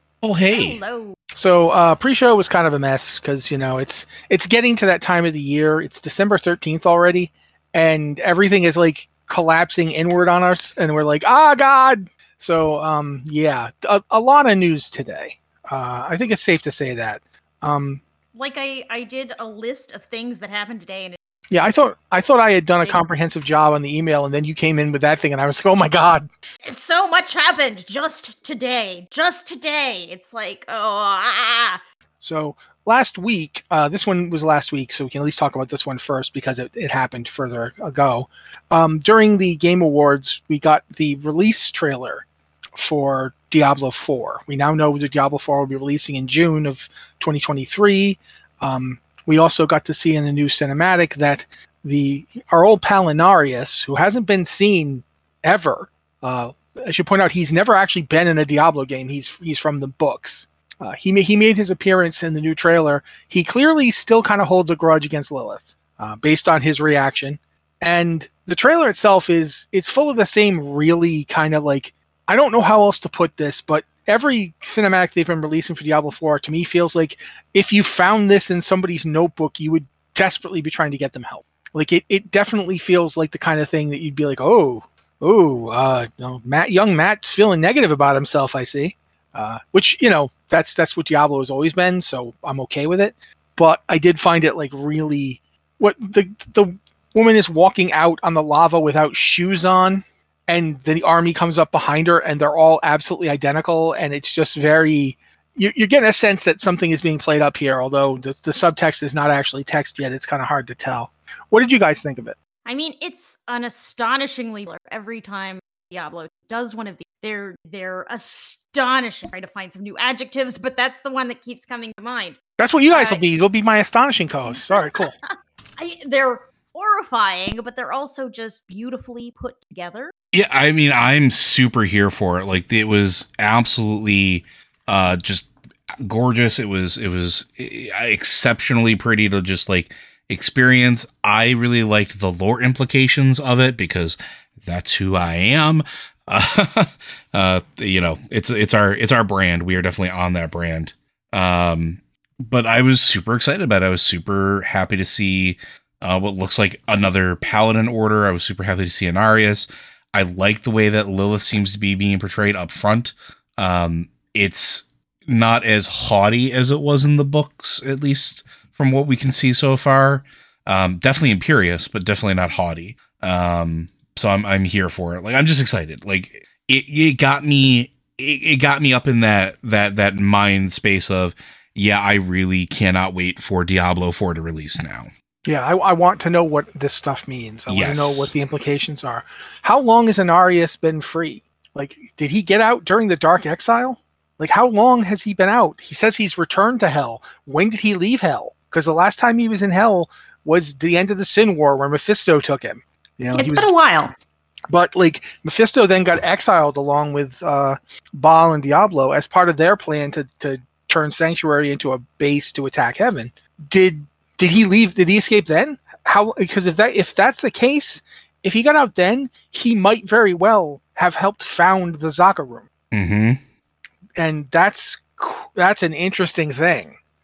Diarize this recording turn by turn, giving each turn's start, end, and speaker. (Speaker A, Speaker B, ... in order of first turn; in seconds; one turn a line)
Speaker A: 0.2-0.8
Speaker B: 0.5-1.2
Speaker C: 1.4-18.0
Speaker B: 18.4-21.2
Speaker C: 21.5-26.3
Speaker B: 26.6-31.8
Speaker C: 32.2-112.4
Speaker B: 112.7-123.2
Speaker C: 122.6-125.2
Speaker B: 124.5-130.1
Speaker A: 130.3-185.1
Speaker C: 185.5-203.7
Speaker A: 187.7-188.3
Speaker B: 203.3-204.1
Speaker C: 204.7-222.7
Speaker A: 222.9-223.4
Speaker C: 224.2-227.0